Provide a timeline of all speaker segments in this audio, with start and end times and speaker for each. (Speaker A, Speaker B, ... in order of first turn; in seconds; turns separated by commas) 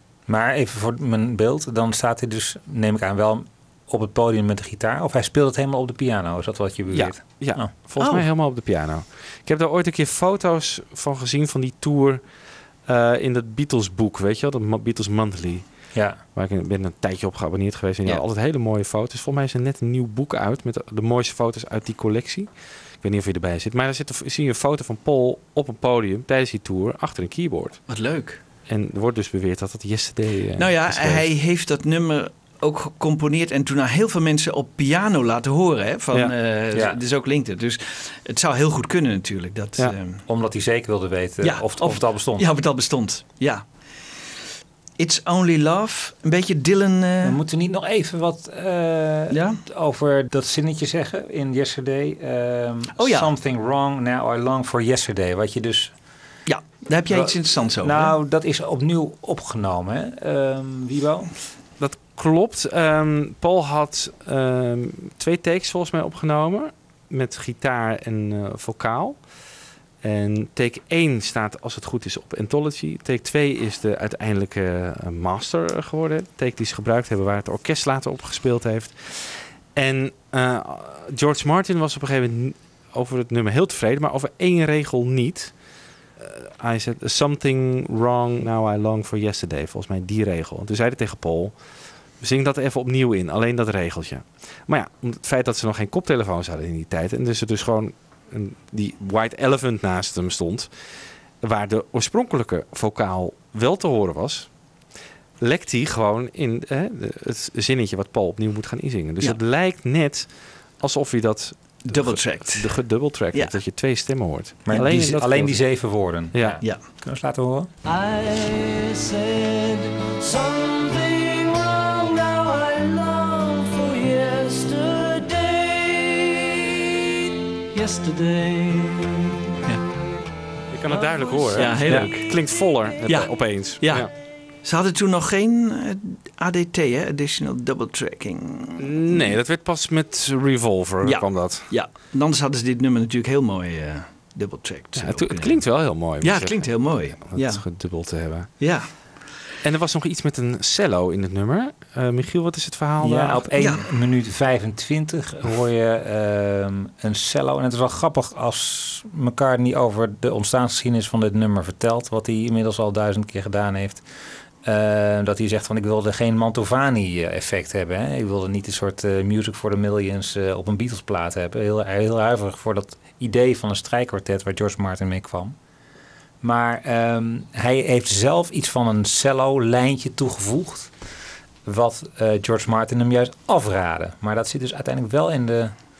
Speaker A: 0.3-7.7, Speaker B: 6.9-27.9, Speaker C: 8.0-8.3, Speaker A: 15.9-16.2, Speaker C: 27.9-28.4, Speaker B: 28.6-31.2, Speaker C: 30.6-40.2, Speaker A: 36.7-37.0, Speaker A: 40.3-42.5, Speaker C: 41.4-43.7, Speaker C: 45.0-47.4, Speaker A: 47.2-56.0, Speaker C: 49.3-49.6, Speaker C: 53.0-53.3, Speaker C: 56.5-58.1, Speaker A: 57.1-61.3, Speaker B: 61.8-104.9, Speaker B: 105.4-116.6, Speaker C: 111.8-113.5, Speaker A: 114.7-117.7, Speaker D: 117.8-126.6, Speaker D: 127.7-129.3, Speaker B: 130.7-134.1, Speaker D: 130.9-133.0, Speaker C: 131.5-139.3, Speaker B: 138.8-141.7, Speaker C: 141.0-148.1, Speaker B: 145.0-149.1, Speaker C: 148.6-149.2, Speaker B: 149.6-153.5, Speaker A: 153.0-164.1, Speaker C: 153.6-153.8, Speaker A: 164.6-175.6, Speaker A: 176.4-181.0, Speaker A: 181.6-185.8